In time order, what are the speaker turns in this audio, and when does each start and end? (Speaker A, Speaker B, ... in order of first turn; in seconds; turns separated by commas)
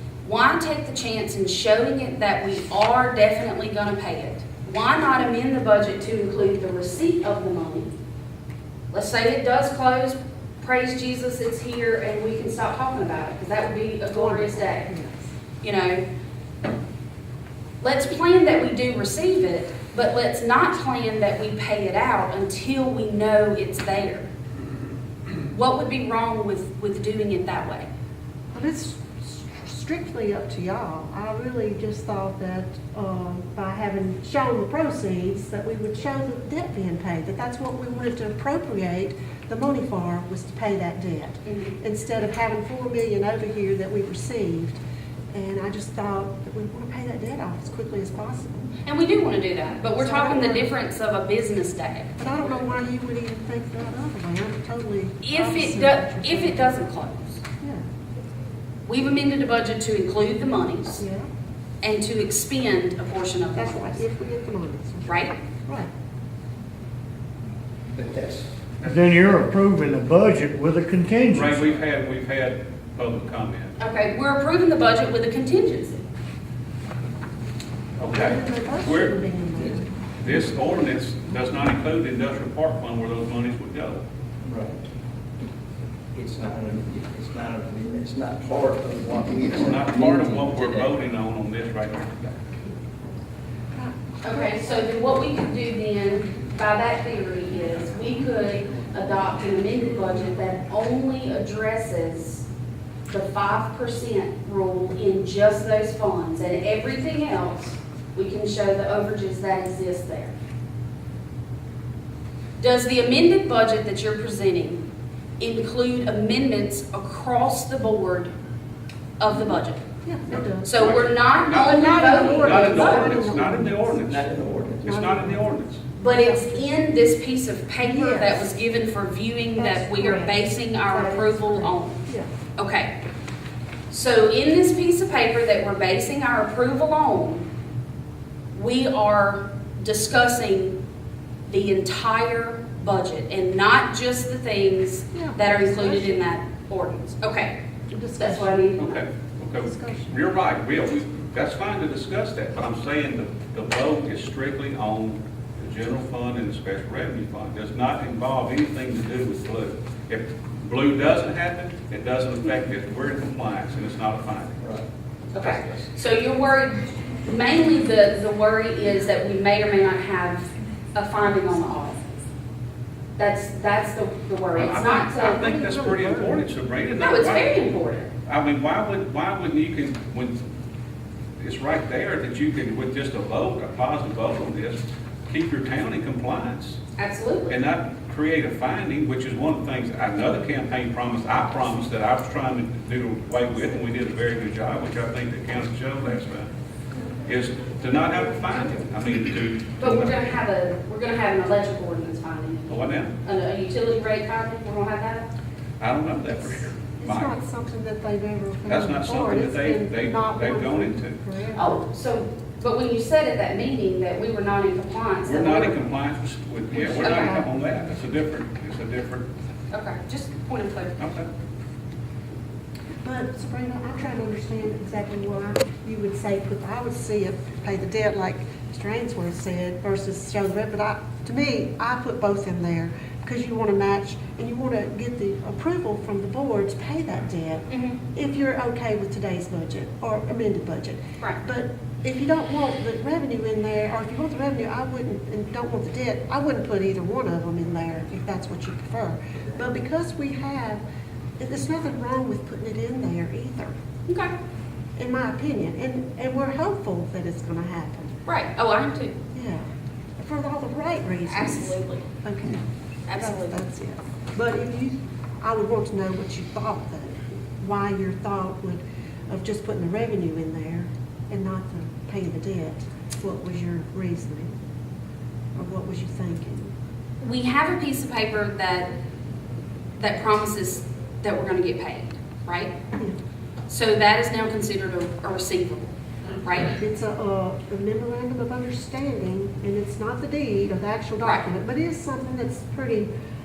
Speaker A: 0.2-7.9, Speaker A: 8.9-14.9, Speaker B: 14.1-15.3, Speaker A: 15.6-16.1, Speaker A: 17.8-24.3, Speaker A: 25.5-27.9, Speaker B: 28.5-44.8, Speaker A: 41.5-41.7, Speaker B: 45.3-48.7, Speaker A: 48.8-52.1, Speaker B: 50.0-50.8, Speaker B: 52.2-56.8, Speaker A: 55.2-57.4, Speaker A: 58.9-61.0, Speaker B: 61.0-61.3, Speaker A: 61.8-64.0, Speaker B: 63.5-65.9, Speaker A: 65.1-65.3, Speaker C: 68.0-68.5, Speaker D: 68.8-71.8, Speaker E: 71.3-73.8, Speaker A: 73.8-76.0, Speaker E: 78.0-79.2, Speaker B: 78.0-79.9, Speaker E: 80.2-84.0, Speaker C: 84.5-84.8, Speaker C: 86.1-90.9, Speaker E: 89.5-92.1, Speaker B: 93.7-95.0, Speaker A: 94.2-102.5, Speaker A: 103.1-110.3, Speaker A: 112.6-114.8, Speaker A: 115.4-118.3, Speaker A: 119.2-119.8, Speaker B: 120.0-120.7, Speaker E: 120.3-124.3, Speaker A: 120.6-123.4, Speaker B: 121.5-124.0, Speaker C: 124.1-124.8, Speaker E: 124.8-125.8, Speaker B: 124.8-126.7, Speaker A: 126.0-132.0, Speaker B: 127.8-128.5, Speaker B: 129.6-132.3, Speaker A: 132.6-132.9, Speaker A: 133.9-137.5, Speaker A: 138.5-140.8, Speaker A: 141.5-147.6, Speaker B: 145.1-146.2, Speaker B: 147.9-148.7, Speaker A: 148.2-149.0, Speaker E: 148.8-164.6, Speaker B: 149.6-150.2, Speaker A: 165.3-172.0, Speaker E: 165.4-165.9, Speaker A: 173.2-175.5, Speaker E: 174.6-177.6, Speaker B: 175.4-176.4, Speaker A: 177.0-178.1, Speaker E: 178.3-180.4, Speaker E: 181.4-186.8, Speaker A: 187.0-187.6, Speaker E: 187.5-196.5, Speaker E: 197.2-200.2, Speaker A: 199.8-205.3, Speaker E: 202.7-203.2, Speaker E: 205.8-207.3, Speaker B: 207.0-211.8, Speaker E: 208.7-211.2, Speaker A: 211.6-215.8, Speaker E: 215.3-219.3, Speaker B: 216.7-217.9, Speaker A: 217.0-217.4, Speaker A: 219.7-221.0, Speaker E: 221.0-221.3, Speaker B: 223.0-250.8, Speaker A: 237.7-238.0, Speaker B: 251.4-253.7, Speaker A: 254.1-254.3, Speaker B: 255.0-258.1, Speaker A: 258.3-259.1, Speaker B: 259.3-259.7, Speaker B: 260.2-262.6, Speaker A: 261.3-262.1, Speaker A: 263.1-263.6, Speaker B: 263.2-274.5, Speaker B: 275.6-276.7, Speaker A: 277.2-278.9, Speaker A: 280.0-282.7, Speaker A: 283.7-286.7, Speaker B: 286.7-293.1